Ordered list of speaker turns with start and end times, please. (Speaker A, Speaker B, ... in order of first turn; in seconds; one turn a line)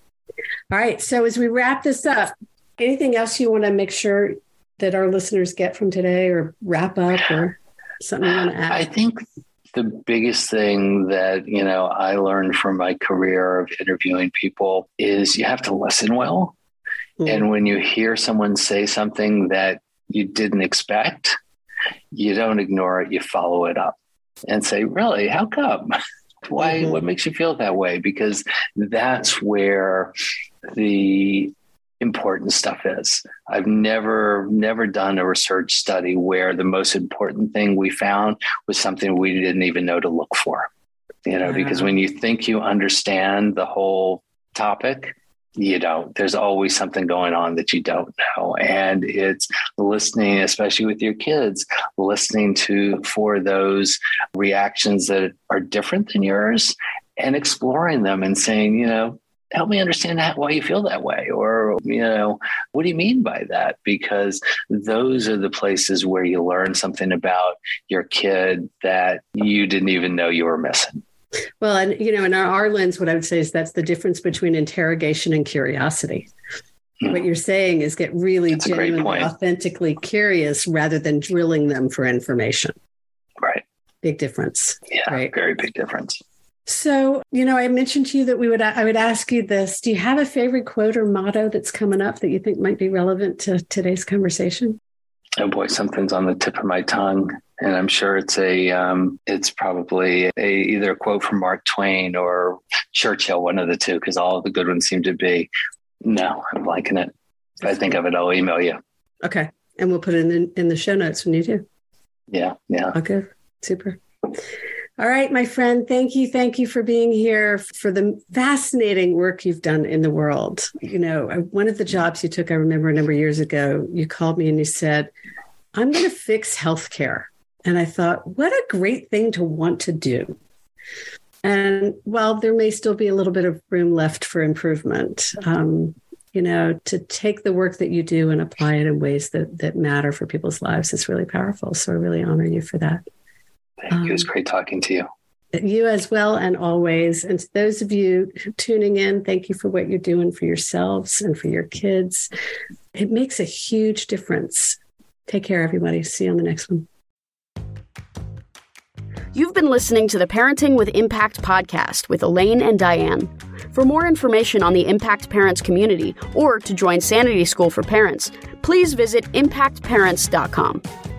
Speaker A: 0.7-8.8
Speaker B: 8.7-16.6
Speaker B: 17.2-21.4
Speaker B: 22.1-30.1
Speaker B: 30.7-40.7
Speaker B: 41.3-71.0
Speaker A: 71.6-76.3
Speaker A: 77.1-82.8
Speaker B: 78.6-79.3
Speaker A: 84.0-85.3
Speaker B: 85.0-86.2
Speaker A: 86.7-94.8
Speaker B: 95.4-105.5
Speaker B: 106.0-108.8
Speaker A: 109.2-111.7
Speaker B: 112.3-113.0
Speaker A: 112.9-114.0
Speaker A: 115.0-125.1
Speaker A: 125.7-130.4
Speaker A: 131.4-143.0
Speaker B: 143.9-145.1
Speaker A: 143.9-144.2
Speaker A: 145.5-152.3
Speaker A: 152.9-156.9
Speaker C: 159.3-170.8